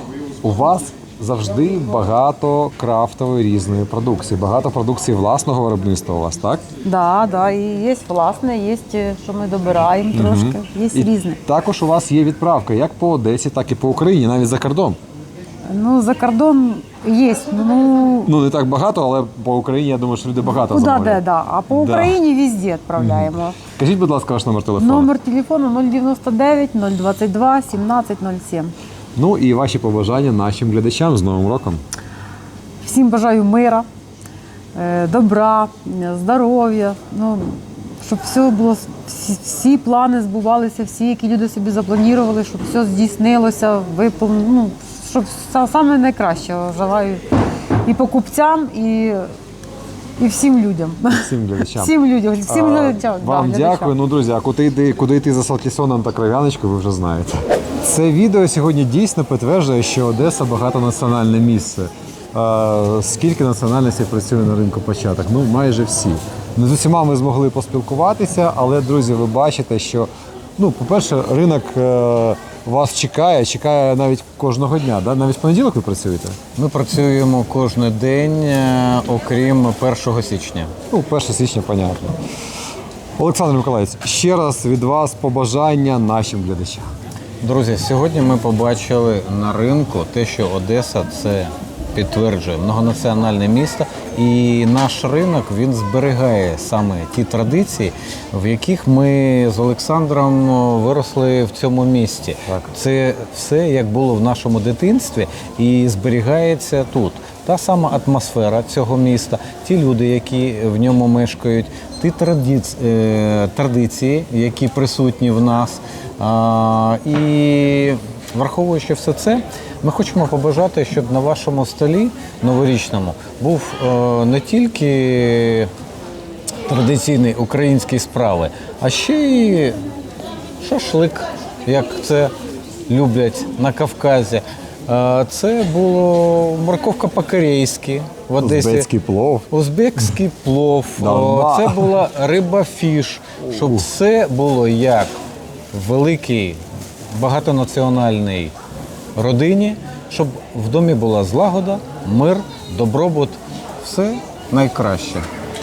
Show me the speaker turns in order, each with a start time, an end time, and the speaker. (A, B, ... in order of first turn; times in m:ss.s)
0:00.4-0:06.6 A
0:06.8-0:11.4 B
0:10.1-0:15.0 A
0:15.7-0:18.3 B
0:18.3-0:22.2 A
0:20.6-0:23.6 B
0:23.0-0:25.1 A
0:24.8-0:28.7 B
0:29.2-0:31.8 A
0:32.8-0:33.9 B
0:34.8-0:47.2 B
0:47.9-0:49.3 B
0:50.2-0:54.0 B
0:51.1-0:51.9 A
0:52.5-1:16.4 A
1:16.6-1:20.7 C
1:20.9-1:22.2 A
1:23.2-1:26.9 A
1:27.4-2:05.7 C
1:42.5-1:42.7 A
2:06.7-2:09.8 C
2:10.6-2:12.3 C
2:12.9-2:18.9 C
2:18.4-2:19.5 A
2:19.5-2:25.1 C
2:21.0-2:21.9 A
2:23.4-2:23.9 A
2:25.7-2:28.5 C
2:29.2-2:35.3 C